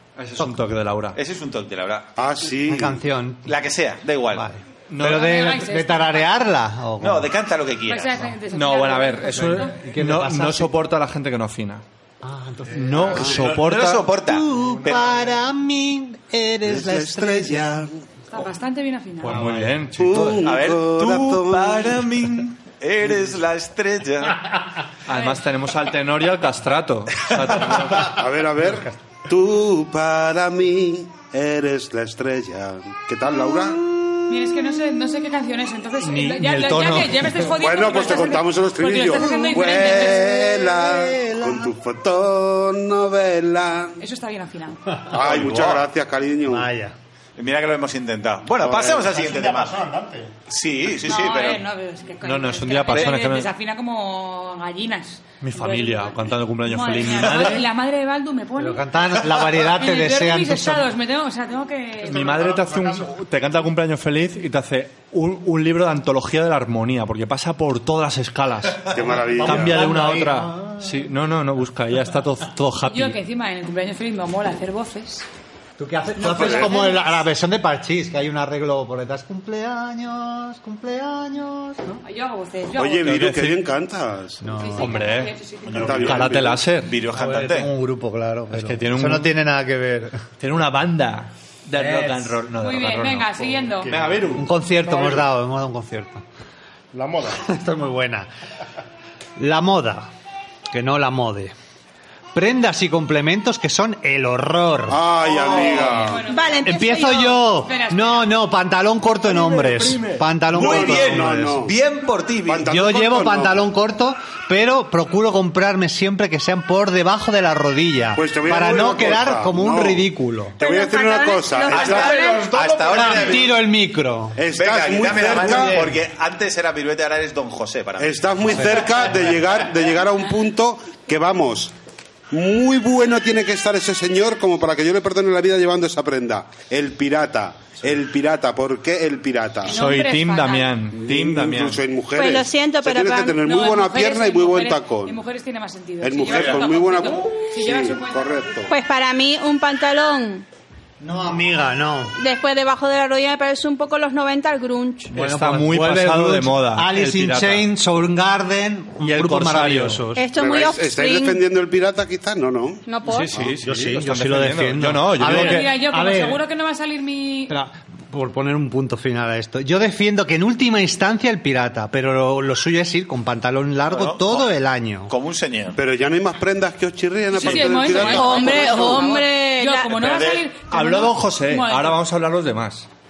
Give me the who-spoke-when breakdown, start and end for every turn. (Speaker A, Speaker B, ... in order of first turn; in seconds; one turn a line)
Speaker A: 0.2-1.2
Speaker B: 1.1-2.1
Speaker C: 2.2-3.0
Speaker D: 2.7-3.5
Speaker B: 3.5-4.4
Speaker D: 4.3-7.3
Speaker A: 4.9-5.3
Speaker E: 5.0-6.3
Speaker B: 7.0-8.3
Speaker E: 7.9-9.8
Speaker A: 8.5-11.8
Speaker D: 9.3-10.7
Speaker D: 12.2-13.3
Speaker F: 12.7-13.5
Speaker A: 12.7-14.1
Speaker B: 13.3-15.1
Speaker D: 14.3-17.9
Speaker F: 14.6-15.3
Speaker C: 16.6-17.9
Speaker E: 18.3-19.5
Speaker A: 19.2-20.5
Speaker D: 19.3-19.8
Speaker C: 20.0-22.0
Speaker B: 20.4-24.5
Speaker A: 25.1-28.2
Speaker E: 25.1-25.4
Speaker C: 28.0-33.8
Speaker E: 34.3-40.5
Speaker A: 36.0-37.5
Speaker C: 37.6-44.0
Speaker D: 40.2-41.7
Speaker E: 44.0-45.0
Speaker C: 45.1-46.7
Speaker B: 45.1-45.8
Speaker D: 46.5-47.0
Speaker B: 47.4-49.9
Speaker C: 48.6-49.0
Speaker F: 48.7-50.3
Speaker B: 50.5-51.6
Speaker E: 51.0-59.0
Speaker A: 52.2-53.5
Speaker A: 55.4-57.7
Speaker D: 58.6-60.9
Speaker E: 59.7-62.4
Speaker A: 62.1-73.2
Speaker F: 62.1-63.2
Speaker C: 68.9-69.9
Speaker D: 69.4-71.1
Speaker E: 72.9-75.3
Speaker D: 75.8-82.0
Speaker E: 76.2-77.2
Speaker C: 76.3-76.8
Speaker E: 82.0-83.3
Speaker C: 82.8-84.5
Speaker A: 83.0-83.6
Speaker D: 84.4-85.0
Speaker E: 84.5-85.9
Speaker A: 84.8-85.4
Speaker B: 85.7-87.7
Speaker C: 85.7-86.6
Speaker A: 85.9-87.0
Speaker D: 87.1-90.2
Speaker A: 88.5-89.4
Speaker A: 90.4-94.5
Speaker D: 91.8-92.4
Speaker E: 92.5-93.9
Speaker F: 93.8-95.2
Speaker D: 94.3-96.2
Speaker F: 96.9-97.4
Speaker D: 97.4-98.3
Speaker D: 99.4-100.1
Speaker D: 100.7-101.5
Speaker D: 102.3-105.0
Speaker C: 104.9-106.2
Speaker E: 105.2-108.3
Speaker G: 106.3-107.4
Speaker D: 106.6-111.6
Speaker A: 109.2-110.3
Speaker C: 110.5-111.8
Speaker B: 110.5-112.7
Speaker C: 112.5-113.7
Speaker D: 112.7-120.6
Speaker C: 118.2-123.2
Speaker G: 120.6-122.6
Speaker B: 121.7-123.6
Speaker D: 122.9-124.4
Speaker C: 124.4-125.9
Speaker B: 124.5-128.9
Speaker D: 125.4-125.9
Speaker C: 128.0-131.7
Speaker C: 132.3-139.8
Speaker E: 139.7-140.8
Speaker A: 139.7-141.8
Speaker C: 140.9-145.2
Speaker G: 142.2-143.4
Speaker E: 143.4-148.7
Speaker C: 146.0-148.7
Speaker B: 146.3-146.6
Speaker G: 148.7-150.4
Speaker D: 151.0-152.2
Speaker G: 152.2-155.1
Speaker A: 155.1-157.7
Speaker D: 155.1-160.2
Speaker A: 159.0-160.1
Speaker G: 160.2-161.4
Speaker C: 160.3-163.6
Speaker G: 162.9-163.3
Speaker A: 163.1-165.8
Speaker D: 163.6-166.4
Speaker E: 165.2-167.5
Speaker D: 167.5-175.1
Speaker B: 173.9-174.5
Speaker B: 175.1-175.8
Speaker C: 175.8-179.1
Speaker E: 177.3-182.0
Speaker B: 177.4-177.7
Speaker G: 177.9-180.0
Speaker B: 179.9-180.5
Speaker A: 180.6-182.9